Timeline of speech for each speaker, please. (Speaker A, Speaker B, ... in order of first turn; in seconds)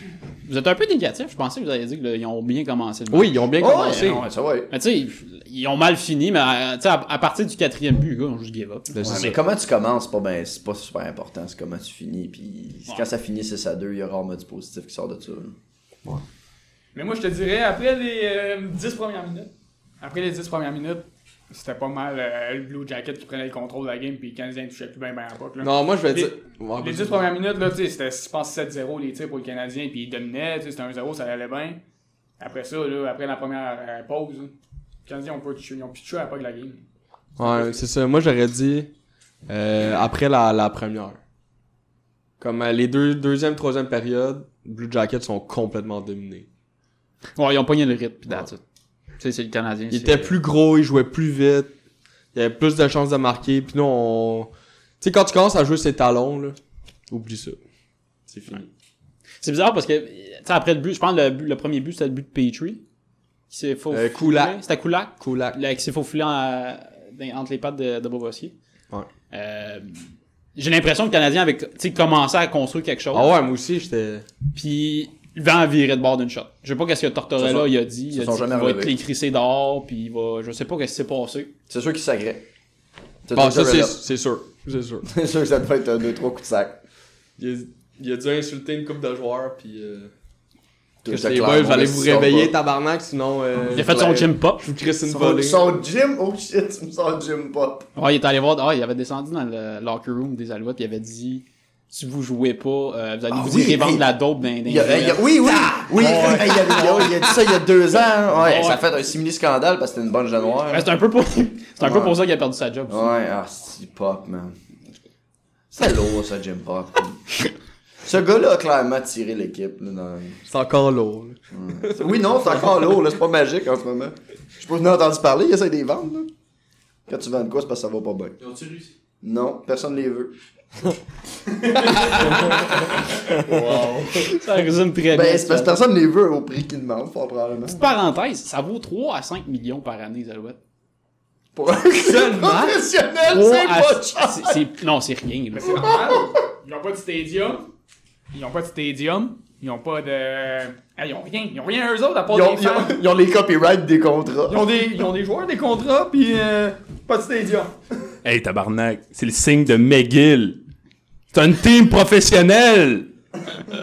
Speaker A: 0.4-9.3, 47.4-48.6, 49.2-50.3, 59.4-62.8, 63.5-68.5, 69.3-70.0, 70.5-73.3, 74.5-81.5, 93.7-94.6, 98.0-105.4, 106.0-106.7, 108.4-108.8, 110.7-113.1, 134.2-135.8, 137.7-140.6, 142.4-142.7, 143.3-145.9
Speaker B: 3.1-4.2, 8.9-9.4, 25.6-27.2, 37.4-38.9, 39.5-41.2, 42.4-46.5, 49.9-51.7, 52.3-56.6, 57.1-57.6, 58.3-58.6, 63.9-64.6, 65.2-65.6, 73.1-74.2, 83.3-85.1, 87.4-90.1, 91.1-95.8, 106.1-106.4, 120.5-121.9, 133.5-134.1, 142.1-142.7
Speaker C: 3.6-4.7, 9.0-15.6, 77.4-79.0, 81.7-82.5, 83.2-84.0, 85.0-86.8, 91.0-92.5, 95.0-97.9, 103.3-104.1, 104.6-110.9, 111.8-112.2, 112.9-114.6, 115.7-117.3, 118.0-120.4, 121.5-126.3, 127.1-128.4, 129.2-130.3, 135.1-137.9, 141.6-144.6, 145.8-146.4, 152.3-154.7
Speaker D: 16.9-31.8, 32.4-34.5, 35.0-36.8, 37.4-37.8, 145.5-147.7, 148.3-153.0, 154.5-157.7
Speaker E: 158.2-160.6, 161.3-163.1